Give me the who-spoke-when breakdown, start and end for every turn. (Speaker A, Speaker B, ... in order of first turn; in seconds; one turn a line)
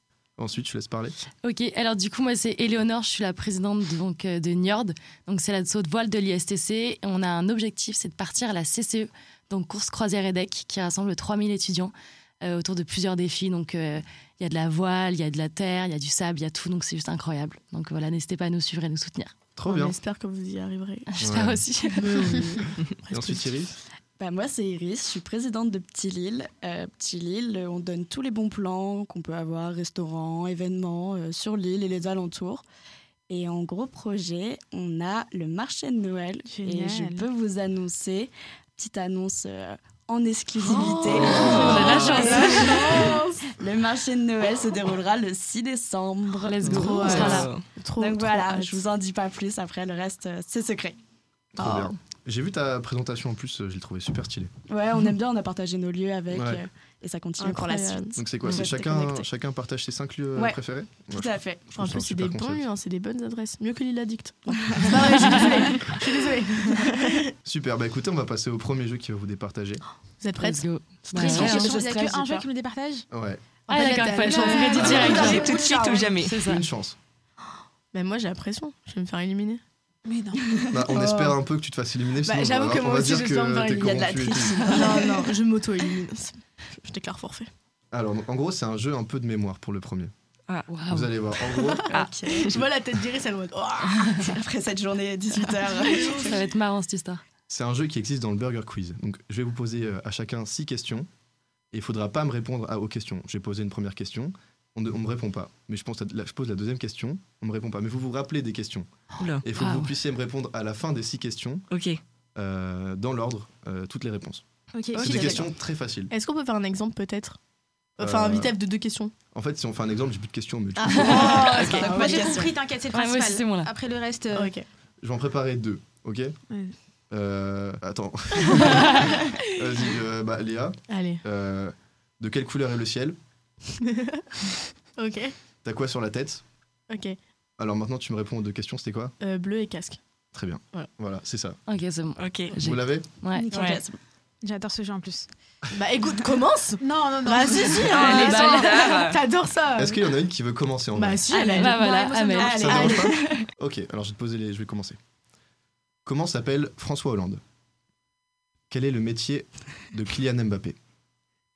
Speaker A: 0.4-1.1
Speaker B: 1.4-19.3
Speaker A: 19.6-19.9
Speaker C: 19.6-21.1
Speaker B: 21.1-22.4
Speaker A: 21.2-21.6
Speaker C: 21.9-23.5
Speaker A: 23.1-23.7
Speaker D: 24.2-32.6
Speaker D: 33.3-47.4
Speaker E: 36.5-37.3
Speaker E: 40.6-43.0
Speaker C: 40.8-43.2
Speaker A: 41.1-42.2
Speaker B: 41.4-42.8
Speaker B: 46.4-47.5
Speaker C: 46.6-48.9
Speaker F: 47.0-47.7
Speaker D: 48.0-51.0
Speaker A: 51.5-54.5
Speaker C: 51.6-51.9
Speaker D: 54.7-59.2
Speaker A: 56.3-56.6
Speaker C: 57.4-58.2
Speaker A: 58.1-62.6
Speaker D: 61.1-61.6
Speaker C: 61.7-67.3
Speaker D: 64.6-65.4
Speaker A: 67.4-69.8
Speaker C: 70.2-70.7
Speaker B: 70.4-71.7
Speaker E: 71.1-73.1
Speaker D: 71.2-72.4
Speaker C: 71.3-71.8
Speaker A: 73.1-73.4
Speaker C: 73.7-75.3
Speaker B: 73.7-76.6
Speaker E: 74.1-76.0
Speaker A: 74.8-75.1
Speaker D: 74.9-76.1
Speaker F: 75.1-76.4
Speaker A: 76.3-77.0
Speaker C: 77.9-79.6
Speaker E: 80.0-80.6
Speaker A: 80.7-84.6
Speaker C: 80.9-81.4
Speaker C: 82.2-83.9
Speaker D: 83.8-85.2
Speaker C: 84.5-87.5
Speaker A: 87.9-90.1
Speaker B: 90.7-91.1
Speaker A: 90.9-91.9
Speaker C: 91.5-94.3
Speaker F: 91.9-92.5
Speaker D: 92.1-92.4
Speaker D: 94.2-96.3
Speaker C: 95.3-96.0
Speaker B: 96.0-97.2
Speaker A: 97.5-101.1
Speaker A: 101.7-108.9
Speaker F: 109.2-109.4
Speaker A: 109.4-111.7
Speaker B: 109.5-109.9
Speaker F: 111.7-112.0
Speaker A: 112.3-114.4
Speaker E: 114.7-115.4
Speaker A: 114.9-116.1
Speaker F: 115.0-115.4
Speaker C: 116.1-117.4
Speaker C: 118.0-119.1
Speaker A: 118.0-118.5
Speaker A: 119.3-121.7
Speaker C: 120.8-122.3
Speaker D: 121.0-122.5
Speaker E: 121.1-124.5
Speaker B: 122.9-123.7
Speaker C: 124.3-124.7
Speaker A: 125.0-126.3
Speaker E: 126.5-126.7
Speaker A: 127.1-133.2
Speaker C: 130.9-131.2
Speaker C: 133.8-134.2
Speaker C: 135.0-135.3
Speaker A: 135.6-136.4
Speaker C: 136.9-137.2
Speaker A: 137.6-139.1
Speaker C: 139.2-140.0
Speaker A: 140.3-141.6
Speaker B: 141.7-143.5
Speaker F: 142.2-142.5
Speaker A: 142.6-143.1
Speaker E: 143.4-143.8
Speaker F: 143.5-143.8
Speaker D: 143.5-143.9
Speaker E: 144.4-145.3
Speaker C: 145.7-150.1
Speaker E: 146.8-148.6
Speaker F: 147.9-149.2
Speaker B: 148.1-148.8
Speaker A: 149.8-151.2
Speaker C: 150.9-153.2
Speaker E: 151.3-153.1
Speaker B: 151.5-152.7
Speaker D: 152.4-153.4
Speaker A: 152.6-155.0
Speaker A: 156.0-157.4
Speaker A: 158.7-160.8